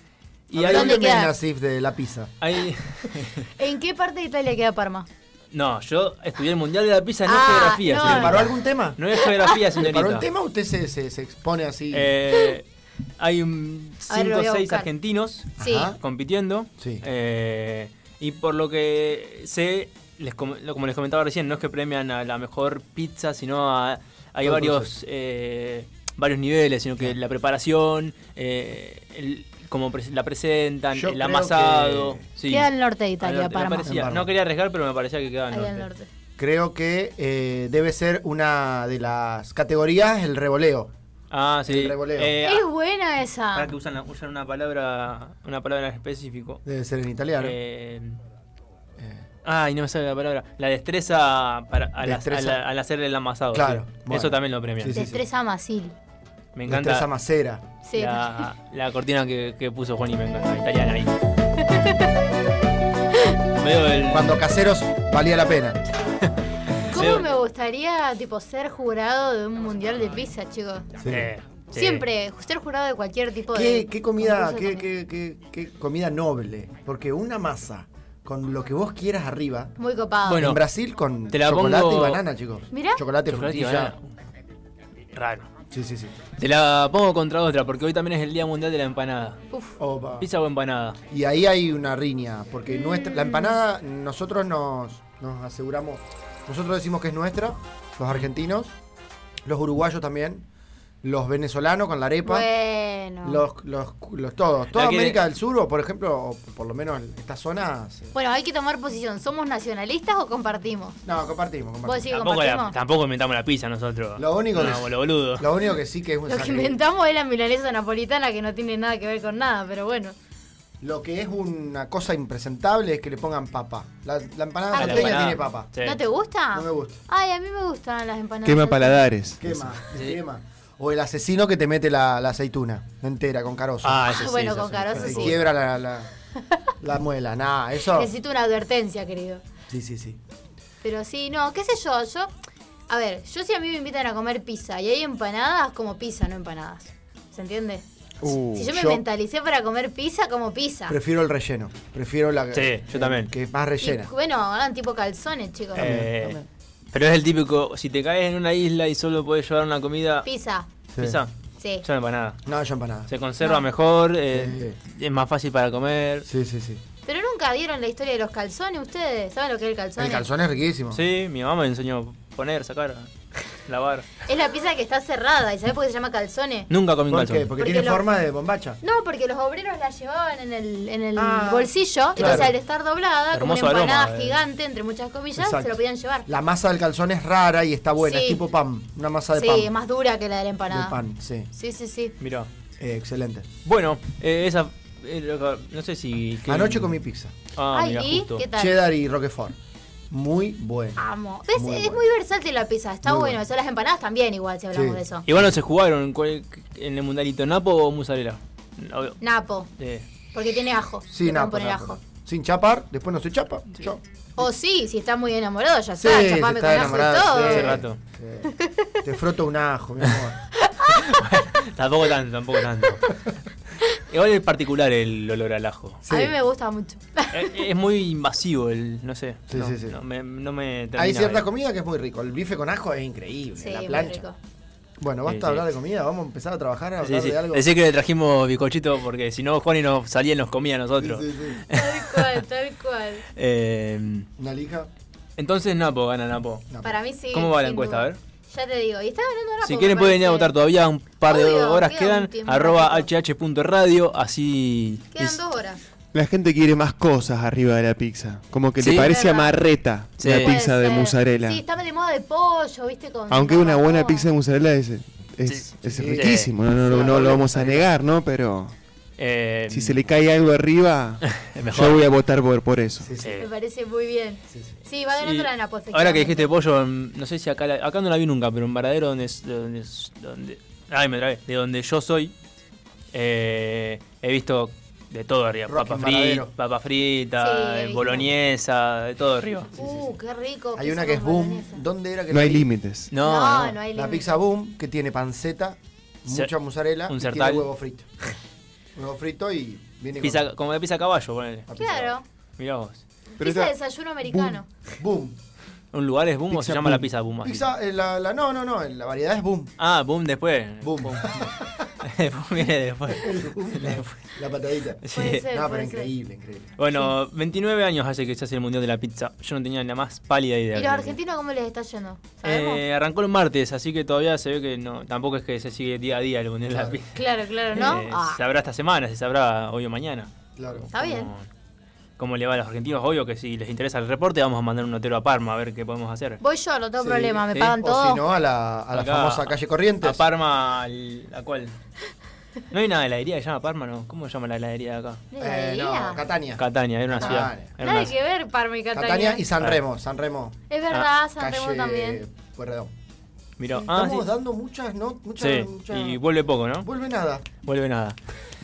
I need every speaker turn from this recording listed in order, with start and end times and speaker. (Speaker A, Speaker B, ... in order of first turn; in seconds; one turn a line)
Speaker A: 0.5-1.1
Speaker B: 0.5-2.3
Speaker C: 0.7-1.3
Speaker A: 2.4-3.5
Speaker C: 3.6-5.1
Speaker A: 5.5-10.3
Speaker C: 7.2-8.4
Speaker B: 7.8-9.0
Speaker C: 9.2-9.6
Speaker B: 9.8-12.2
Speaker A: 11.9-12.7
Speaker A: 13.2-35.9
Speaker C: 14.1-14.9
Speaker C: 15.6-15.9
Speaker B: 15.6-16.0
Speaker B: 16.8-17.0
Speaker B: 24.4-24.9
Speaker B: 30.9-32.2
Speaker C: 32.5-33.9
Speaker B: 33.8-34.3
Speaker C: 35.5-36.1
Speaker B: 36.4-40.9
Speaker A: 41.3-42.7
Speaker B: 41.7-42.3
Speaker C: 42.4-43.7
Speaker A: 43.5-46.6
Speaker B: 46.6-47.6
Speaker A: 47.4-48.2
Speaker B: 49.0-49.2
Speaker A: 49.4-55.0
Speaker B: 52.0-52.6
Speaker B: 53.5-55.2
Speaker C: 54.9-55.9
Speaker A: 56.5-57.1
Speaker B: 56.7-57.6
Speaker C: 57.8-58.5
Speaker A: 57.9-61.1
Speaker C: 61.7-62.1
Speaker A: 63.6-64.5
Speaker B: 64.1-65.8
Speaker A: 66.9-67.2
Speaker C: 66.9-70.9
Speaker B: 71.0-71.3
Speaker A: 71.1-72.0
Speaker C: 71.7-74.8
Speaker B: 73.5-79.7
Speaker C: 79.8-80.5
Speaker A: 80.2-80.6
Speaker B: 80.3-83.9
Speaker A: 81.3-82.2
Speaker C: 82.7-83.0
Speaker A: 83.3-84.1
Speaker A: 85.1-85.5
Speaker B: 85.7-86.1
Speaker A: 86.4-89.4
Speaker C: 89.5-89.8
Speaker B: 89.8-90.2
Speaker A: 90.2-91.0
Speaker B: 91.1-98.7
Speaker C: 92.7-93.6
Speaker B: 99.4-100.4
Speaker B: 101.0-102.5
Speaker C: 102.2-103.5
Speaker B: 103.2-108.1
Speaker A: 104.7-105.2
Speaker C: 108.1-111.0
Speaker B: 111.0-112.1
Speaker C: 111.8-112.8
Speaker A: 112.1-115.5
Speaker B: 114.2-116.8
Speaker C: 116.2-120.1
Speaker B: 120.8-125.7
Speaker C: 124.7-129.0
Speaker A: 124.7-126.0
Speaker B: 126.5-127.0
Speaker D: 128.4-129.7
Speaker B: 129.4-134.1
Speaker A: 133.8-135.4
Speaker C: 134.1-135.4
Speaker B: 134.9-136.1
Speaker B: 136.8-138.1
Speaker C: 137.8-139.4
Speaker B: 139.7-140.2
Speaker C: 140.8-142.3
Speaker C: 142.9-147.8
Speaker B: 148.2-149.0
Speaker D: 148.2-148.7
Speaker C: 148.5-151.0
Speaker B: 150.9-154.1
Speaker A: 152.5-153.3
Speaker C: 153.8-155.9
Speaker B: 155.7-156.4
Speaker A: 155.8-160.3
Speaker C: 160.2-160.7
Speaker B: 160.9-161.2
Speaker A: 161.0-161.3
Speaker C: 161.6-161.8
Speaker A: 161.8-162.4
Speaker B: 162.4-163.1
Speaker A: 163.1-166.3
Speaker B: 164.3-164.8
Speaker B: 166.2-166.8
Speaker C: 167.0-170.3
Speaker B: 170.0-171.0
Speaker A: 170.9-173.1
Speaker A: 173.7-174.1
Speaker C: 174.2-176.7
Speaker A: 176.7-177.5
Speaker B: 177.1-178.8
Speaker C: 177.6-178.1
Speaker C: 178.8-186.3
Speaker B: 181.2-182.5
Speaker A: 182.2-182.5
Speaker A: 183.3-184.4
Speaker B: 185.4-189.7
Speaker C: 188.0-188.4
Speaker C: 189.3-191.0
Speaker B: 190.7-191.5
Speaker C: 191.5-192.1
Speaker A: 192.2-192.5
Speaker B: 192.8-193.5
Speaker A: 193.6-197.0
Speaker B: 196.4-197.3
Speaker A: 197.5-198.4
Speaker C: 197.7-198.8
Speaker B: 198.5-199.5
Speaker B: 200.1-202.1
Speaker C: 200.9-205.3
Speaker B: 203.0-203.4
Speaker B: 204.7-205.6
Speaker A: 205.3-209.2
Speaker C: 209.2-209.7
Speaker A: 209.8-210.1
Speaker C: 210.3-212.0
Speaker B: 211.1-214.5
Speaker C: 214.4-217.8
Speaker B: 216.0-218.5
Speaker A: 216.8-218.0
Speaker C: 218.4-219.0
Speaker B: 219.0-220.4
Speaker A: 220.7-223.3
Speaker A: 224.1-226.0
Speaker B: 226.0-226.3
Speaker C: 226.1-227.5
Speaker A: 227.3-231.5
Speaker B: 229.5-230.0
Speaker B: 230.9-234.2
Speaker C: 233.6-234.3
Speaker B: 235.0-237.6
Speaker A: 235.2-235.7
Speaker A: 237.0-242.3
Speaker B: 241.0-241.6
Speaker C: 241.7-243.2
Speaker A: 243.3-244.3
Speaker B: 244.4-244.9
Speaker A: 245.4-246.7
Speaker B: 246.7-247.0
Speaker C: 246.8-250.6
Speaker A: 247.3-248.2
Speaker A: 249.6-255.4
Speaker C: 251.2-253.1
Speaker C: 255.1-255.8
Speaker D: 256.1-261.6
Speaker A: 258.8-259.1
Speaker C: 259.0-259.6
Speaker A: 260.2-260.6
Speaker C: 260.3-264.3
Speaker D: 263.3-268.7
Speaker A: 265.4-266.6
Speaker B: 265.8-267.9
Speaker A: 269.2-270.0
Speaker D: 269.7-273.1
Speaker A: 271.3-272.1
Speaker B: 273.0-273.4
Speaker A: 273.2-273.5
Speaker C: 273.4-276.5
Speaker B: 274.5-274.8
Speaker A: 275.2-282.3
Speaker A: 283.1-289.7
Speaker B: 285.7-286.5
Speaker C: 287.4-288.3
Speaker B: 289.7-290.1
Speaker C: 289.7-291.8
Speaker B: 290.7-292.6
Speaker D: 292.3-293.1
Speaker A: 293.1-293.8
Speaker C: 293.2-294.4
Speaker B: 293.9-298.1
Speaker A: 297.1-297.7
Speaker B: 298.9-300.5
Speaker A: 300.2-301.7
Speaker B: 301.7-302.2
Speaker C: 301.8-302.2
Speaker A: 302.6-303.0
Speaker D: 303.4-304.6
Speaker C: 303.4-304.7
Speaker B: 305.0-305.4
Speaker A: 305.9-307.6
Speaker B: 306.5-309.7
Speaker A: 309.8-314.1
Speaker B: 310.8-311.8
Speaker B: 313.2-316.8
Speaker A: 315.0-315.4
Speaker C: 315.1-316.1
Speaker A: 316.8-321.2
Speaker C: 320.7-322.8
Speaker A: 322.4-331.5
Speaker B: 326.7-327.0
Speaker C: 327.1-328.4
Speaker B: 330.6-330.9
Speaker C: 330.9-331.3
Speaker A: 332.2-336.4
Speaker C: 336.4-338.2
Speaker B: 337.0-340.2
Speaker A: 337.5-337.8
Speaker A: 338.9-341.7
Speaker A: 342.7-345.2
Speaker C: 345.3-346.2
Speaker B: 345.4-347.8
Speaker A: 346.6-348.1
Speaker C: 347.2-349.5
Speaker B: 348.9-350.6
Speaker C: 350.7-352.2
Speaker B: 351.4-352.9
Speaker A: 353.6-354.3
Speaker B: 353.7-356.2
Speaker A: 355.4-356.9
Speaker B: 356.8-357.4
Speaker A: 357.6-358.2